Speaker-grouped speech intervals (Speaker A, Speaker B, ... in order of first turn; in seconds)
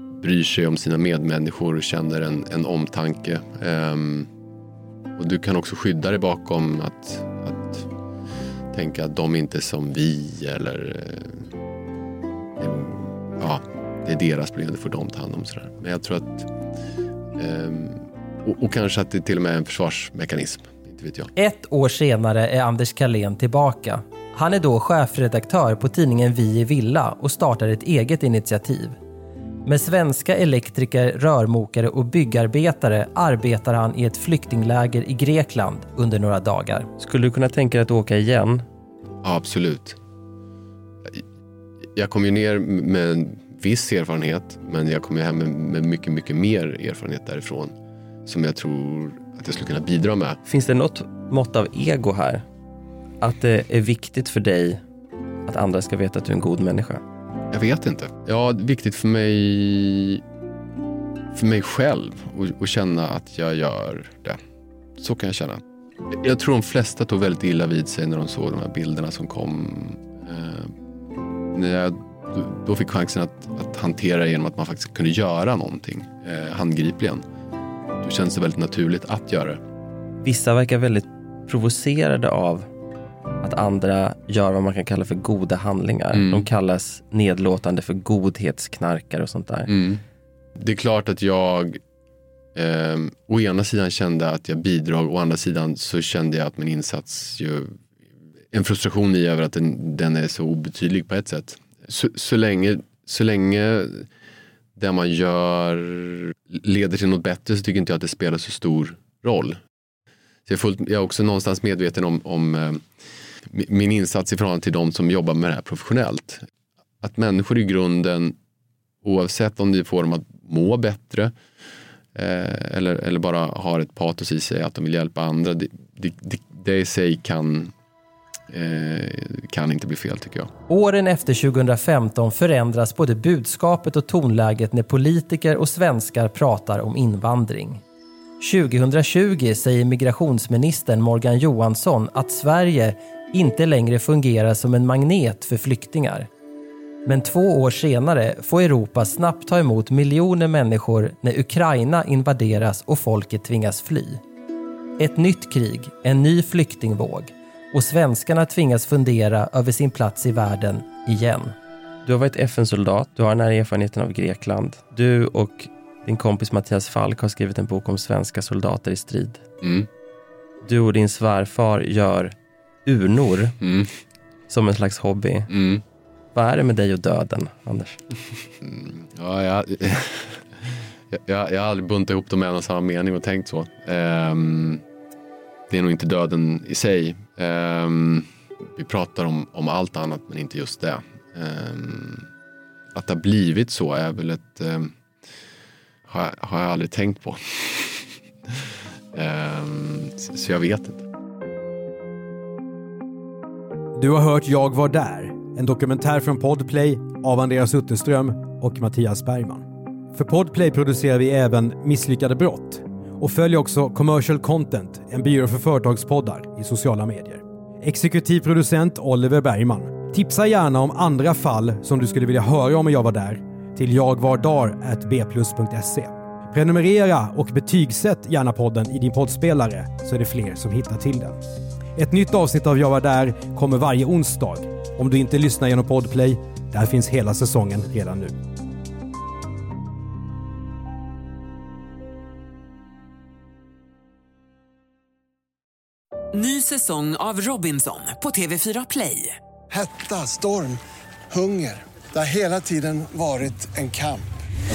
Speaker A: 0.2-4.3, 5.2-7.9, 8.7-11.5, 12.6-16.5, 17.4-21.3, 39.2-40.0, 41.9-47.7, 48.2-50.4, 57.5-60.2, 61.3-64.4, 65.0-70.7, 71.5-77.2, 78.0-79.6, 86.1-86.5, 89.7-90.0, 90.6-91.8, 92.5-97.7, 98.5-104.1, 104.8-109.6, 110.5-112.8, 113.5-116.4, 117.0-118.3, 119.0-121.3, 122.1-127.7, 128.5-130.5, 169.6-169.9, 173.6-173.9, 175.5-175.8, 178.6-184.8, 185.7-192.3, 192.9-194.9, 196.1-201.1
Speaker B: 21.4-29.0, 29.6-36.9, 130.7-137.8, 138.4-146.3, 147.1-154.2, 155.0-161.5
Speaker C: 37.0-38.6, 50.5-52.4, 53.2-54.8, 55.5-57.0, 80.2-82.7, 83.4-89.7, 162.0-169.4, 170.6-173.6, 174.5-175.5, 176.3-178.0
Speaker D: 203.9-231.4, 231.9-238.3
Speaker E: 246.3-249.4
Speaker F: 249.7-254.5